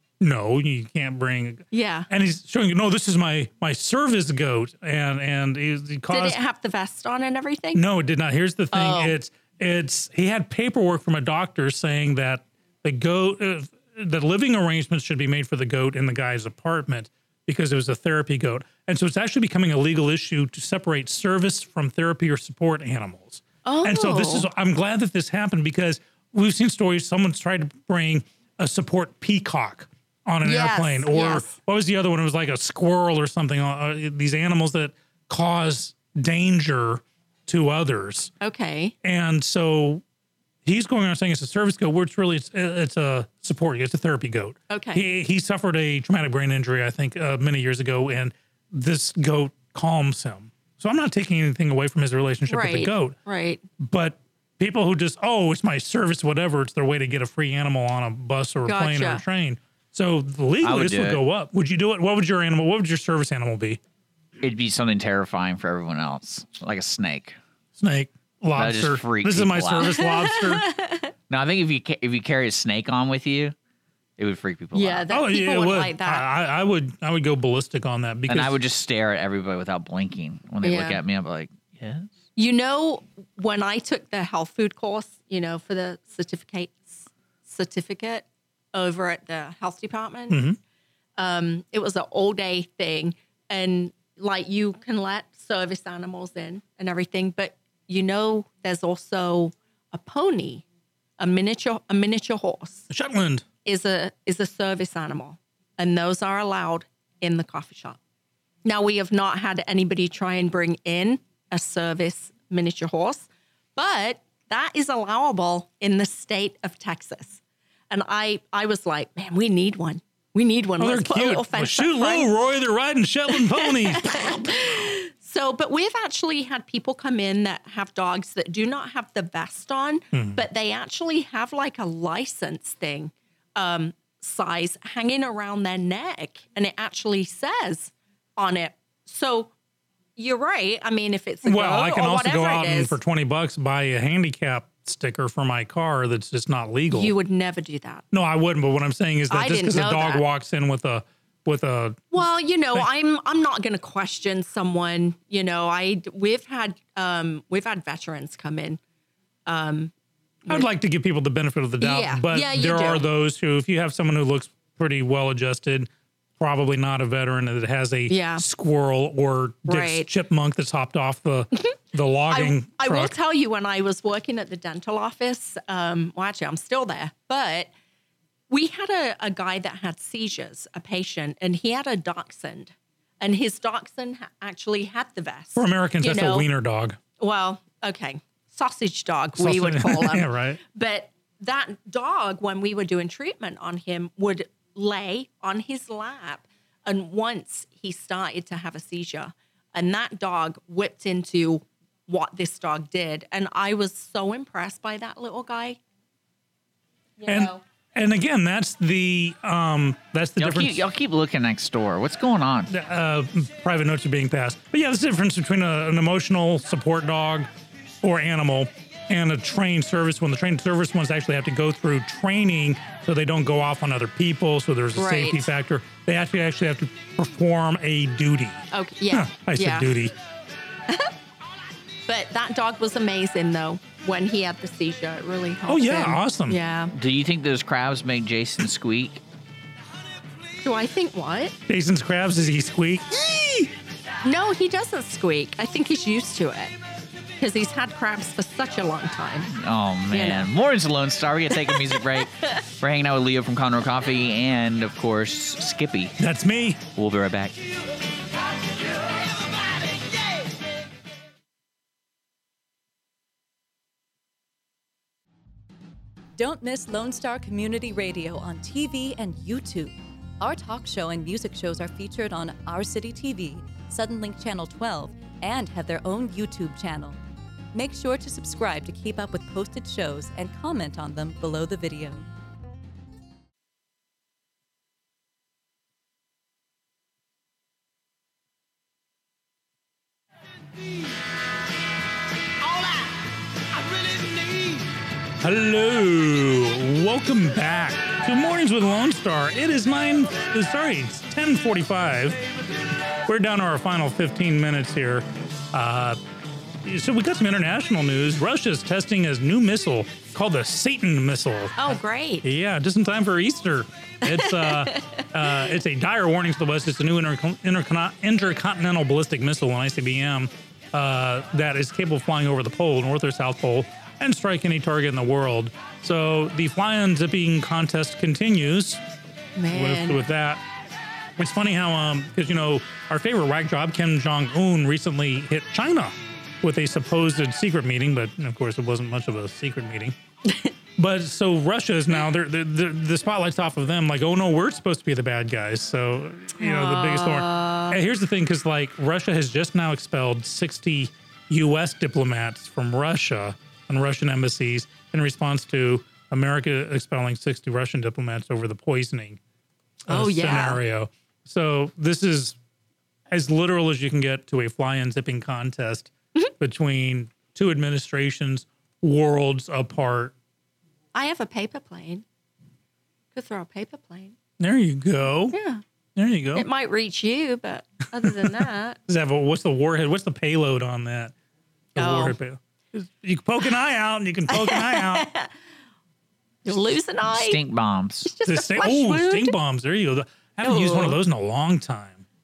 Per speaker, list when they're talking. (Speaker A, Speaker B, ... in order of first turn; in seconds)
Speaker A: 0.2-6.4, 7.7-38.3, 39.0-40.0, 40.6-53.2, 53.8-63.8, 67.8-70.7, 75.1-78.6, 90.3-90.6, 102.9-103.5, 120.8-124.8, 130.1-130.4, 141.4-147.1, 148.1-152.1, 160.5-173.1, 185.5-187.0, 189.3-190.6, 207.2-210.8, 212.7-217.5, 218.0-230.1, 235.7-236.6, 241.7-243.7, 256.2-256.8, 295.4-302.4, 303.2-306.2, 306.8-329.0, 329.7-330.6, 331.4-340.1, 341.0-359.4, 360.1-362.6, 363.3-370.3, 374.6-375.6, 376.1-376.7, 378.2-381.3, 381.9-385.3, 388.4-392.2
Speaker B: 1.7-2.1, 6.1-7.8, 8.7-9.1, 23.6-24.5, 30.4-31.5, 38.4-38.9, 44.7-45.0, 52.5-53.6, 58.6-59.2, 69.8-71.1, 74.7-76.3, 80.6-81.0, 82.3-90.4, 91.2-100.6, 101.2-102.9, 103.6-108.0, 108.6-122.3, 123.3-139.5, 140.2-143.0, 146.9-148.0, 149.3-150.2, 152.1-158.8, 159.4-159.9, 161.8-163.1, 168.1-168.4, 169.6-170.1, 172.3-177.7, 178.5-186.5, 187.2-205.8, 207.2-207.6, 224.9-225.5, 228.7-229.9, 232.1-236.9, 240.6-241.6, 244.2-246.7, 247.4-249.5, 250.1-250.5, 251.6-252.0, 311.8-312.4, 314.4-315.2, 329.6-330.2, 346.6-348.0, 360.1-360.8, 371.1-372.2, 373.3-374.3, 375.5-375.8, 376.5-379.0, 382.0-382.4, 384.5-385.5, 386.6-387.6, 388.2-389.5, 390.6-391.2
Speaker C: 60.6-61.2, 64.4-67.4, 68.5-69.9, 71.3-73.5, 74.2-75.1, 78.3-82.1, 210.4-212.7, 236.9-239.2, 249.5-256.2, 256.9-257.6, 387.2-388.3
Speaker D: 258.0-260.5, 292.6-293.0, 293.8-294.9
Speaker E: 266.4-277.2, 277.7-282.2